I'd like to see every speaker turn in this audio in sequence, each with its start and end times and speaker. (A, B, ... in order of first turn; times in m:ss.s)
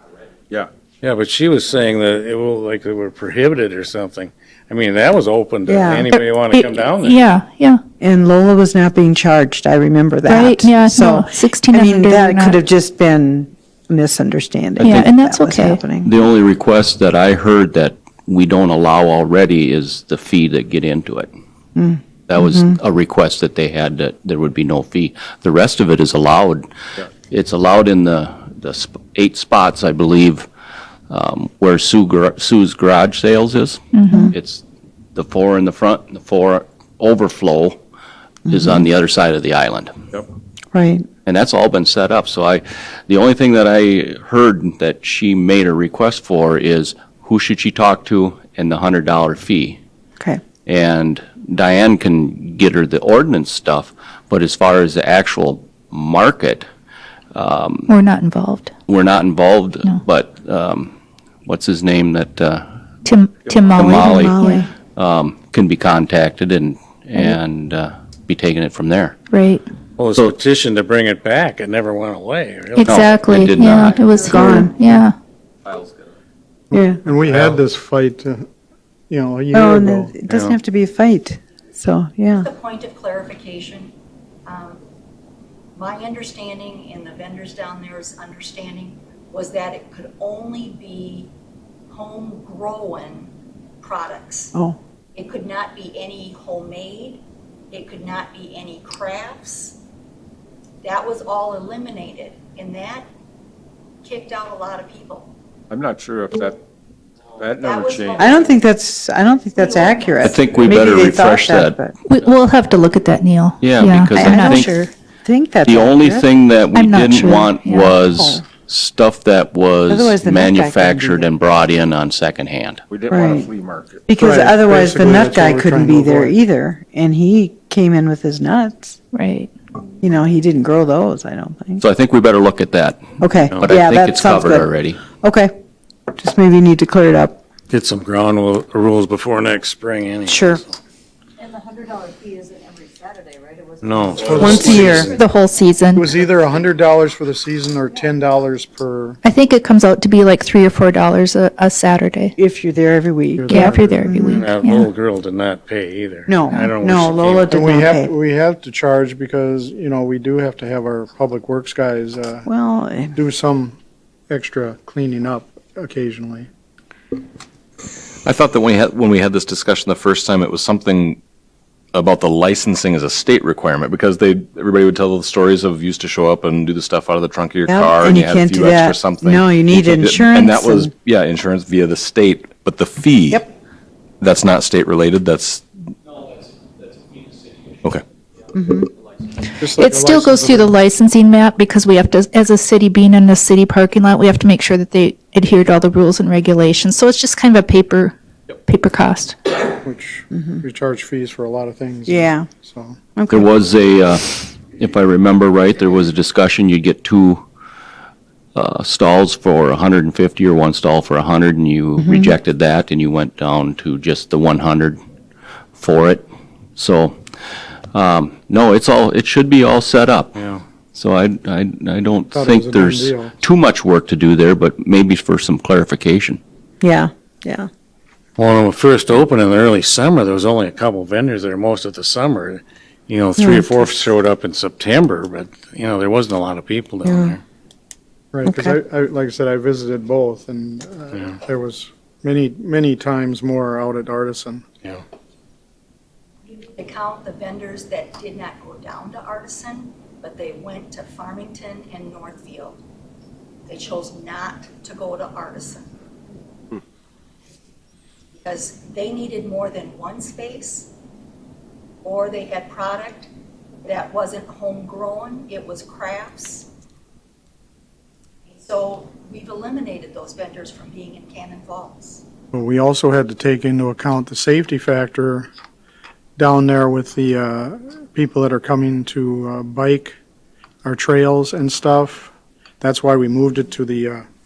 0:01.0-0:07.2 A
0:05.7-0:06.1 B
0:06.1-0:07.8 C
0:08.0-0:16.1 B
0:10.3-0:12.6 C
0:14.8-0:15.8 C
0:16.0-0:21.3 D
0:21.8-0:22.6 B
0:22.3-0:26.7 D
0:27.3-0:30.5 D
0:31.1-0:33.8 D
0:33.9-0:34.3 C
0:34.3-0:34.6 D
0:35.2-0:37.8 D
0:38.5-0:39.9 D
0:38.5-0:38.8 B
0:40.7-0:41.1 B
0:41.3-0:49.8 D
0:50.7-0:56.7 D
0:57.3-0:57.9 D
0:57.9-0:58.7 C
0:58.9-1:00.9 D
1:01.5-1:02.7 D
1:03.0-1:04.7 C
1:03.7-1:04.4 D
1:04.0-1:04.7 B
1:05.0-1:09.2 D
1:09.3-1:09.6 C
1:10.0-1:13.5 A
1:12.8-1:15.2 C
1:12.8-1:14.0 D
1:14.2-1:14.8 B
1:16.7-1:18.5 E
1:16.7-1:17.0 B
1:17.3-1:17.6 A
1:19.1-1:20.2 E
1:19.5-1:22.5 B
1:20.3-1:20.6 A
1:22.4-1:23.9 F
1:24.5-1:24.8 F
1:25.8-1:31.3 F
1:31.9-1:34.5 F
1:35.2-1:39.8 F
1:40.8-1:43.1 F
1:44.0-1:45.3 F
1:45.7-1:46.6 G
1:47.4-1:48.2 G
1:47.4-1:48.6 F
1:48.2-1:51.9 B
1:49.5-1:50.9 F
1:50.2-1:51.8 D
1:52.1-1:54.8 C
1:53.6-1:54.8 D
1:54.2-1:56.3 B
1:55.6-2:02.8 D
1:56.7-1:58.0 C
1:58.0-1:58.4 B
1:59.9-2:01.3 B
2:02.9-2:04.0 G
2:03.1-2:03.5 B
2:04.1-2:09.0 B
2:04.2-2:06.4 E
2:09.1-2:09.5 C
2:10.0-2:11.8 B
2:11.8-2:13.0 D
2:13.2-2:15.6 B
2:13.6-2:15.0 D
2:16.1-2:17.4 B
2:17.7-2:20.8 A
2:20.3-2:20.6 B
2:21.4-2:24.9 H
2:23.8-2:25.1 A
2:24.2-2:25.1 E
2:24.3-2:25.1 B
2:25.0-2:26.1 C
2:26.0-2:29.2 E
2:29.2-2:32.3 C
2:32.4-2:34.4 B
2:33.4-2:34.5 E
2:33.5-2:34.9 C
2:34.3-2:37.6 A
2:36.3-2:38.1 B
2:37.5-2:42.5 E
2:42.4-2:43.2 B
2:43.2-2:43.8 E
2:44.3-2:46.5 E
2:48.2-2:51.2 I
2:51.9-3:03.5 I
2:57.6-3:00.9 B
3:04.2-3:05.6 I
3:08.5-3:08.9 B
3:09.6-3:10.8 E
3:09.7-3:19.4 C
3:19.8-3:23.0 E
3:20.3-3:20.6 B
3:22.1-3:22.5 B
3:23.2-3:23.5 B
3:23.3-3:27.4 D
3:28.6-3:35.0 D
3:32.0-3:32.4 B
3:35.8-3:37.2 D
3:37.9-3:40.3 D
3:40.4-3:40.6 A
3:40.9-3:46.4 D
3:42.3-3:43.3 E
3:46.8-3:47.7 B
3:48.4-3:57.4 A
3:53.4-3:54.0 B
3:57.0-3:57.4 B
3:58.3-4:04.6 E
3:58.5-3:58.8 B
4:06.6-4:12.8 F
4:13.7-4:15.9 F
4:18.4-4:20.9 F
4:22.0-4:23.3 F
4:23.8-4:26.7 F
4:28.5-4:32.2 F
4:32.5-4:35.5 E
4:36.4-4:40.2 E
4:40.8-4:44.3 E